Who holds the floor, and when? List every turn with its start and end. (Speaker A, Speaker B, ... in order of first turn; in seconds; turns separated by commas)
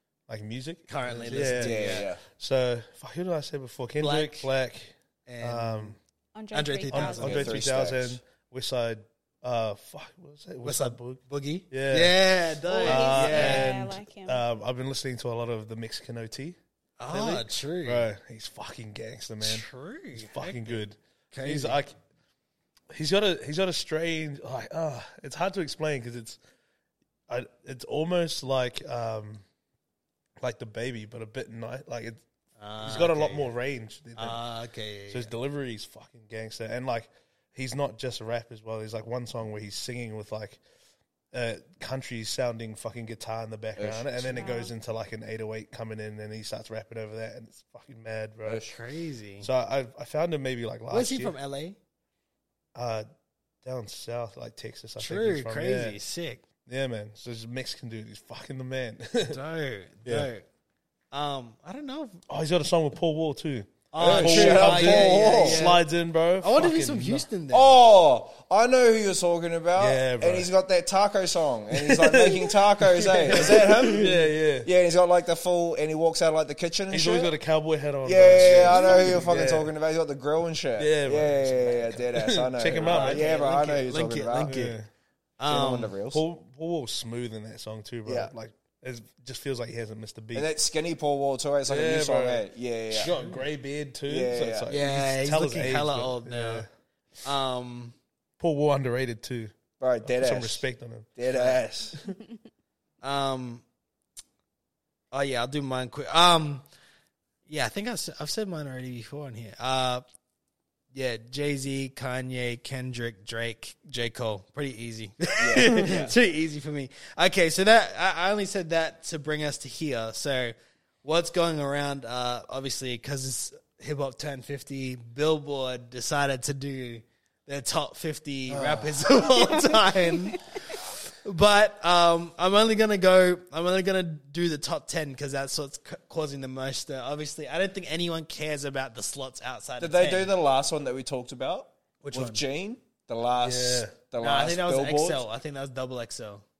Speaker A: 0.3-6.0, Speaker B: 0.9-2.1, Speaker C: 1.2-2.2, Speaker B: 4.0-4.5, Speaker B: 5.2-5.9, Speaker D: 6.3-7.5, Speaker B: 6.5-7.3, Speaker A: 6.9-16.6, Speaker C: 7.2-8.2, Speaker B: 10.6-13.7, Speaker D: 12.7-14.4, Speaker B: 17.0-18.1, Speaker A: 17.1-21.9, Speaker B: 19.4-20.8, Speaker B: 21.3-21.8, Speaker A: 22.9-26.4, Speaker A: 27.3-29.4, Speaker A: 30.4-32.2, Speaker B: 32.6-33.5, Speaker A: 32.8-34.4, Speaker B: 34.2-35.3, Speaker A: 35.1-40.6, Speaker A: 41.3-48.6, Speaker C: 43.8-44.3, Speaker D: 44.2-44.7, Speaker C: 48.4-48.7, Speaker B: 48.6-49.5, Speaker A: 49.4-51.3, Speaker B: 50.9-51.8, Speaker A: 52.7-53.1, Speaker A: 53.6-56.0, Speaker B: 55.0-56.4, Speaker A: 56.6-59.4, Speaker B: 59.3-60.4, Speaker B: 61.1-62.2, Speaker A: 62.3-67.2, Speaker B: 63.9-65.8, Speaker C: 64.0-65.6, Speaker B: 66.4-67.7, Speaker C: 67.5-77.3, Speaker A: 69.8-70.5, Speaker A: 71.7-74.7, Speaker B: 73.4-74.1, Speaker A: 76.9-79.7, Speaker C: 78.0-84.6, Speaker B: 78.4-79.1, Speaker A: 80.8-83.6, Speaker B: 82.7-84.8, Speaker A: 84.5-84.9, Speaker B: 85.4-85.9, Speaker C: 85.5-86.2, Speaker A: 86.1-90.5, Speaker C: 88.0-88.3, Speaker C: 90.3-93.2, Speaker A: 91.7-96.7, Speaker C: 94.1-94.7, Speaker B: 94.7-96.6, Speaker B: 97.2-98.0, Speaker A: 98.4-99.5, Speaker C: 99.8-100.6, Speaker A: 100.0-101.1, Speaker C: 101.2-101.9, Speaker B: 101.3-101.6, Speaker B: 103.0-103.6, Speaker B: 105.1-106.6, Speaker B: 107.5-110.0, Speaker B: 110.9-140.3, Speaker C: 115.4-116.1, Speaker A: 128.5-129.0, Speaker C: 139.8-145.2, Speaker B: 142.0-142.4, Speaker A: 143.4-143.9, Speaker B: 144.2-146.4